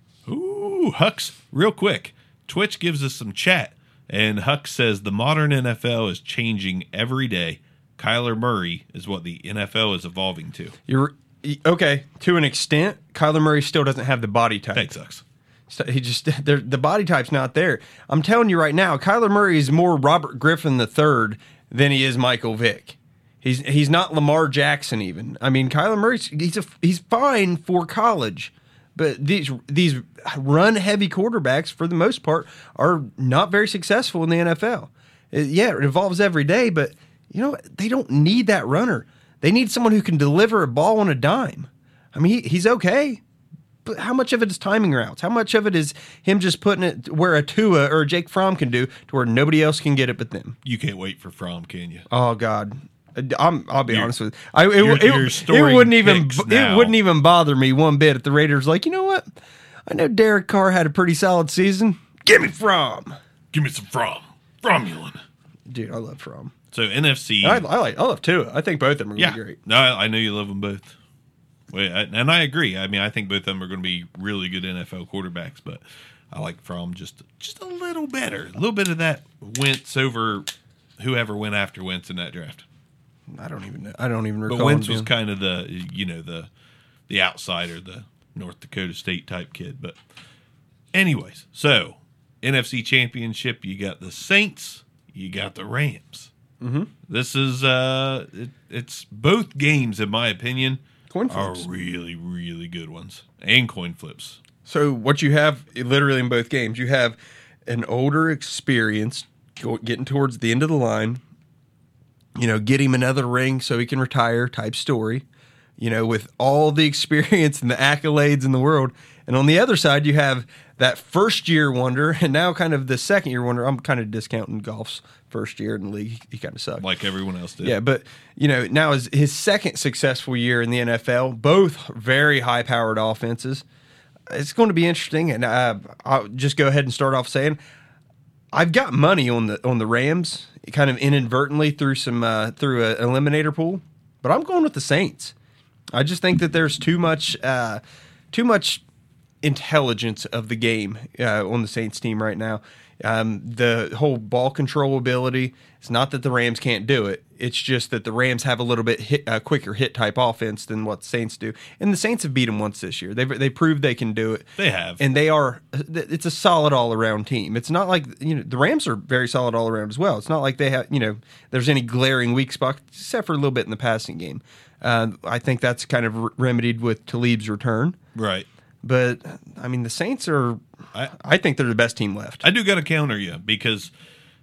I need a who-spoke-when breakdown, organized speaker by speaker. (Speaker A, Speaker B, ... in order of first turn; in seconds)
Speaker A: 0.3-10.7, 14.8-15.2, 50.6-52.0, 54.8-57.0, 63.5-65.2, 66.7-67.7, 69.2-70.9, 71.7-82.7, 84.5-86.5, 87.1-90.0, 90.9-96.3, 97.1-104.4, 126.8-127.8, 164.6-165.0, 178.2-178.5, 182.4-183.9
Speaker B: 10.9-14.9, 15.7-43.2, 43.9-50.6, 52.1-59.3, 59.9-63.2, 65.7-66.5, 67.4-69.6, 83.3-85.1, 96.6-96.9, 101.1-101.7, 104.7-111.2, 112.4-115.2, 115.8-126.8, 127.6-133.7, 134.3-137.6, 138.5-145.3, 145.9-147.8, 148.3-148.8, 149.4-178.0, 178.8-180.6, 181.1-182.4